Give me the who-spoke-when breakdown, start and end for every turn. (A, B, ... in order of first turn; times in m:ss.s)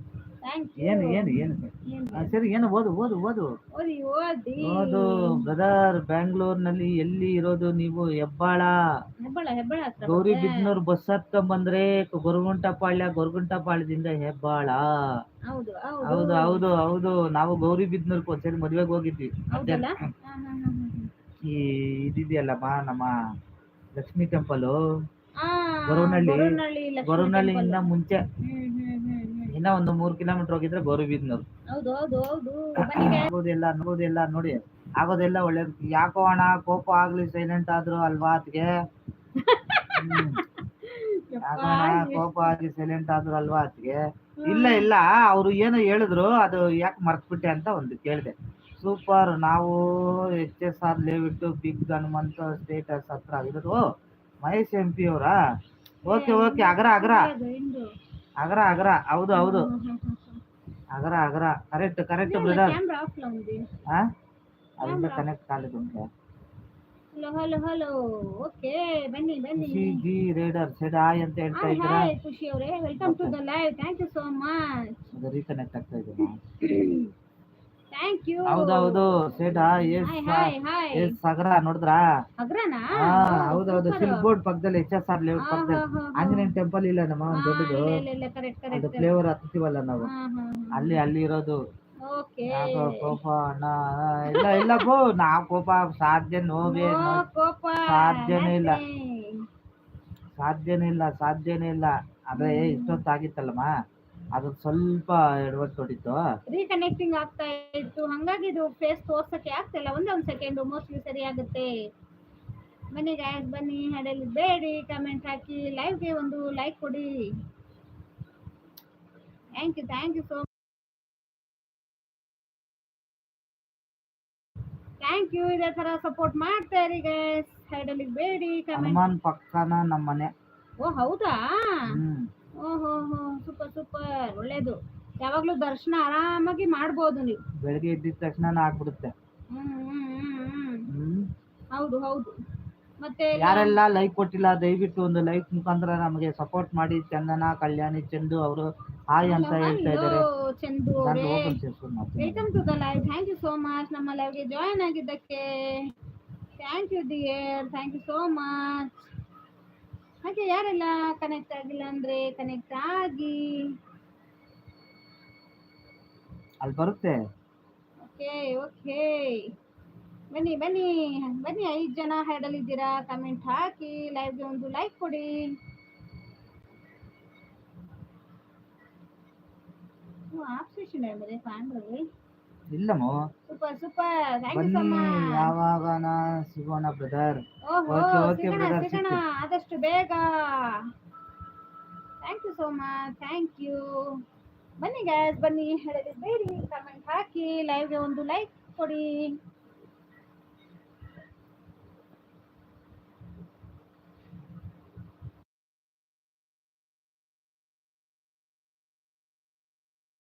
0:00.4-0:02.3 A
0:00.8-0:03.5 B
0:03.8-0:05.4 A
0:04.6-0:08.7 B
0:09.2-0:10.7 A
0:10.0-0:14.8 B
0:15.5-0:16.7 A
0:16.1-0:19.9 B
0:19.5-0:21.1 A
0:21.5-0:23.1 B
0:24.0-0:24.8 B
0:25.4-0:27.9 A
0:25.9-0:26.6 B
0:27.1-0:28.2 B
0:28.4-0:29.6 A
0:29.5-0:31.4 B
0:31.7-0:33.3 A
0:32.8-0:38.7 B
0:39.4-0:42.5 A
0:39.9-0:40.4 B
0:41.4-0:53.8 B
0:44.4-0:44.9 A
0:54.4-0:55.3 B
0:56.1-0:57.3 B
0:56.1-0:57.9 A
0:58.4-0:59.7 B
0:59.4-1:00.4 A
1:00.9-1:02.8 B
1:02.2-1:03.7 A
1:04.8-1:06.0 B
1:04.8-1:05.3 A
1:07.1-1:10.0 A
1:09.6-1:12.1 B
1:11.6-1:14.6 A
1:13.0-1:13.4 B
1:15.1-1:16.4 B
1:16.6-1:17.1 A
1:17.9-1:19.1 A
1:18.5-1:22.0 B
1:19.6-1:21.2 A
1:22.4-1:24.2 A
1:23.0-1:28.0 B
1:25.4-1:26.5 A
1:27.3-1:29.2 A
1:28.7-1:30.1 B
1:30.0-1:31.0 A
1:30.7-1:31.6 B
1:32.1-1:33.2 A
1:32.5-1:37.2 B
1:34.3-1:34.8 A
1:36.7-1:39.4 A
1:37.9-1:38.8 B
1:40.4-1:43.7 B
1:42.4-1:43.0 A
1:44.3-1:46.2 B
1:46.5-1:51.7 A
1:52.9-1:57.1 A
1:59.6-2:00.5 A
2:05.0-2:09.0 A
2:08.7-2:10.3 B
2:10.8-2:11.9 A
2:11.9-2:12.3 B
2:12.6-2:17.4 A
2:17.6-2:19.1 B
2:19.5-2:20.9 A
2:20.9-2:21.3 B
2:21.7-2:22.3 A
2:23.0-2:23.8 A
2:23.4-2:30.2 B
2:29.2-2:31.6 A
2:31.0-2:32.4 B
2:32.2-2:35.9 A
2:36.6-2:39.0 A
2:40.2-2:43.6 A
2:46.6-2:47.2 B
2:48.0-2:49.5 A
2:50.3-2:55.3 A
3:00.3-3:02.1 A
3:02.7-3:03.2 B
3:03.5-3:05.5 A
3:04.5-3:09.2 B
3:07.7-3:10.9 A
3:12.2-3:14.2 A
3:14.8-3:19.4 A